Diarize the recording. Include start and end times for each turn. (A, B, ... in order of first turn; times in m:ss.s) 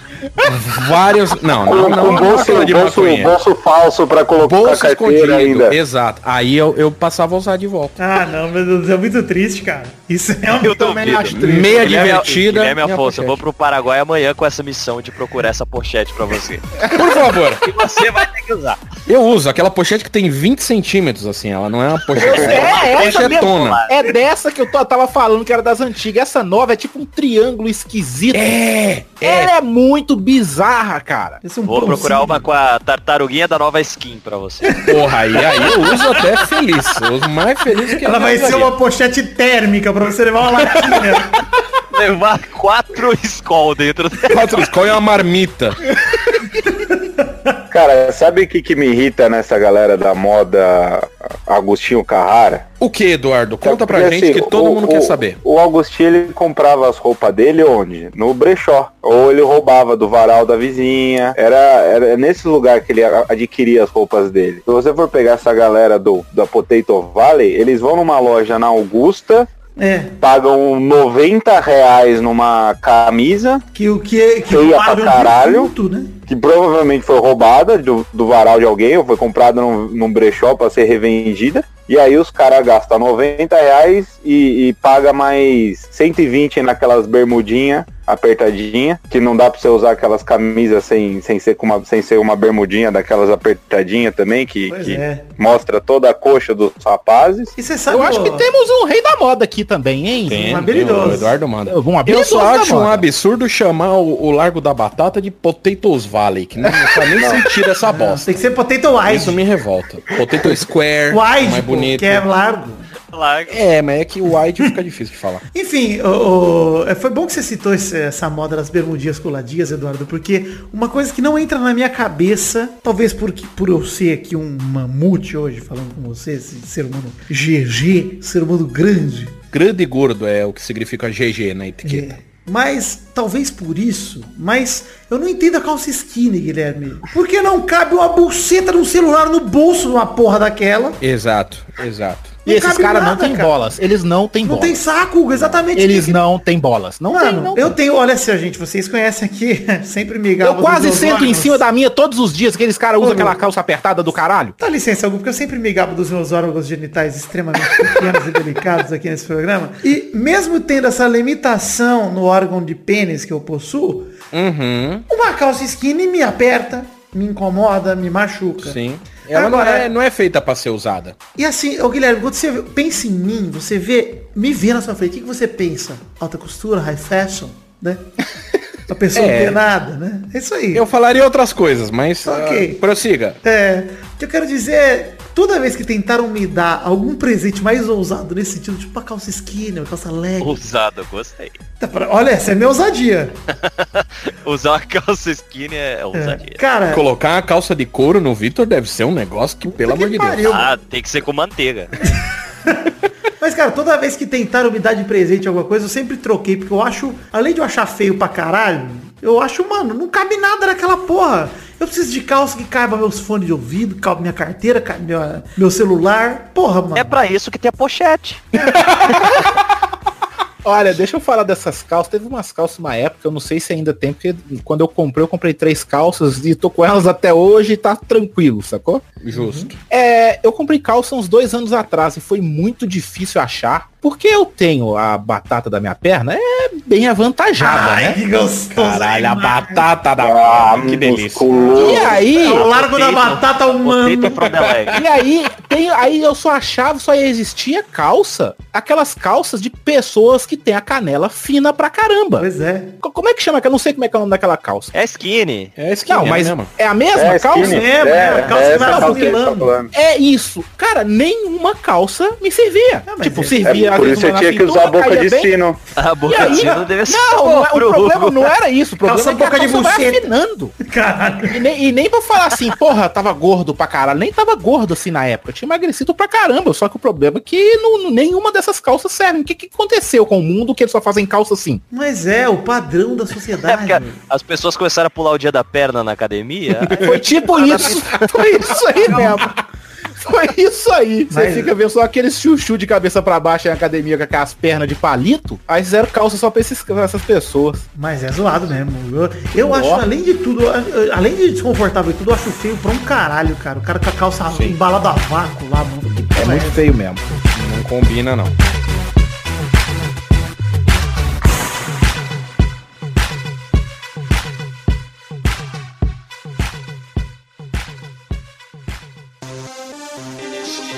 0:00.4-0:00.7 A
0:00.5-0:03.3 B
0:01.6-0:05.8 C
0:04.4-0:07.9 B
0:08.0-0:11.5 A
0:10.5-0:16.9 D
0:11.3-0:11.9 E
0:11.3-0:13.4 B
0:16.9-0:17.7 B
0:17.6-0:18.8 D
0:19.1-0:23.8 B
0:22.1-0:28.6 E
0:22.2-0:24.1 D
0:28.3-0:29.5 B
0:29.2-0:31.4 E
0:31.4-0:32.4 A
0:31.6-0:34.8 D
0:34.6-0:35.9 A
0:34.8-0:38.7 B
0:38.0-0:41.3 A
0:41.9-0:44.6 D
0:44.3-0:45.8 B
0:47.7-0:52.6 C
0:52.8-0:55.4 B
0:53.6-1:09.5 C
1:09.8-1:10.1 A
1:10.2-1:13.6 C
1:13.7-1:16.1 A
1:14.5-1:15.7 C
1:16.3-1:37.5 C
1:34.7-1:35.2 A
1:37.6-1:38.5 A
1:37.9-1:40.5 E
1:40.3-1:48.4 B
1:40.3-1:41.3 A
1:41.7-1:43.0 E
1:46.7-1:47.4 C
1:47.9-1:49.4 A
1:49.0-1:52.2 B
1:51.1-1:52.8 A
1:53.1-1:53.6 D
1:53.5-1:55.4 B
1:55.5-2:09.4 A
2:09.5-2:12.2 B
2:11.8-2:21.0 A
2:21.0-2:22.4 B
2:22.4-2:23.5 A
2:22.4-2:24.8 E
2:24.4-2:26.2 A
2:25.7-2:27.8 E
2:27.1-2:31.6 A
2:30.4-2:34.6 E
2:33.0-2:33.4 A
2:34.6-2:44.1 A
2:44.3-2:45.0 B
2:45.1-2:48.8 A
2:48.6-2:51.2 B
2:49.3-2:49.9 A
2:51.4-2:58.0 A
2:58.9-3:00.8 A
2:59.1-2:59.6 B
3:00.7-3:03.4 B
3:02.2-3:02.8 A
3:03.4-3:10.6 A
3:10.4-3:11.5 D
3:11.8-3:13.3 A
3:13.6-3:16.6 D
3:16.1-3:17.0 A
3:16.9-3:20.5 B
3:19.6-3:20.7 A
3:20.4-3:21.9 D
3:22.0-3:37.2 A
3:36.9-3:38.5 D
3:38.6-3:38.9 A
3:38.8-3:39.3 E
3:40.6-3:49.1 E
3:49.2-3:49.8 B
3:49.3-3:49.7 A
3:49.9-3:58.2 E
3:57.6-3:59.8 A
3:58.7-4:01.7 B
4:00.2-4:02.2 C
4:01.5-4:04.5 A
4:01.8-4:02.6 E
4:01.8-4:05.0 D
4:04.9-4:12.5 E
4:12.4-4:12.9 A
4:13.0-4:14.9 E
4:14.9-4:15.7 D
4:15.8-4:16.7 B
4:16.1-4:17.8 E
4:17.1-4:19.9 C
4:17.5-4:19.7 A
4:18.7-4:19.2 E
4:19.9-4:25.5 E
4:23.0-4:24.0 A
4:23.6-4:25.8 C
4:26.0-4:28.5 D
4:26.2-4:30.8 E
4:26.4-4:26.8 A
4:29.0-4:30.2 A
4:30.8-4:31.6 A
4:31.4-4:41.8 E
4:41.9-4:44.2 A
4:43.6-4:49.4 D
4:46.9-4:49.5 E
4:49.1-4:49.4 A
4:50.2-4:57.8 E
4:51.3-4:51.7 A
4:57.9-5:06.8 A
4:59.6-5:00.0 E
5:04.5-5:04.8 B
5:06.3-5:07.2 E
5:07.5-5:08.6 B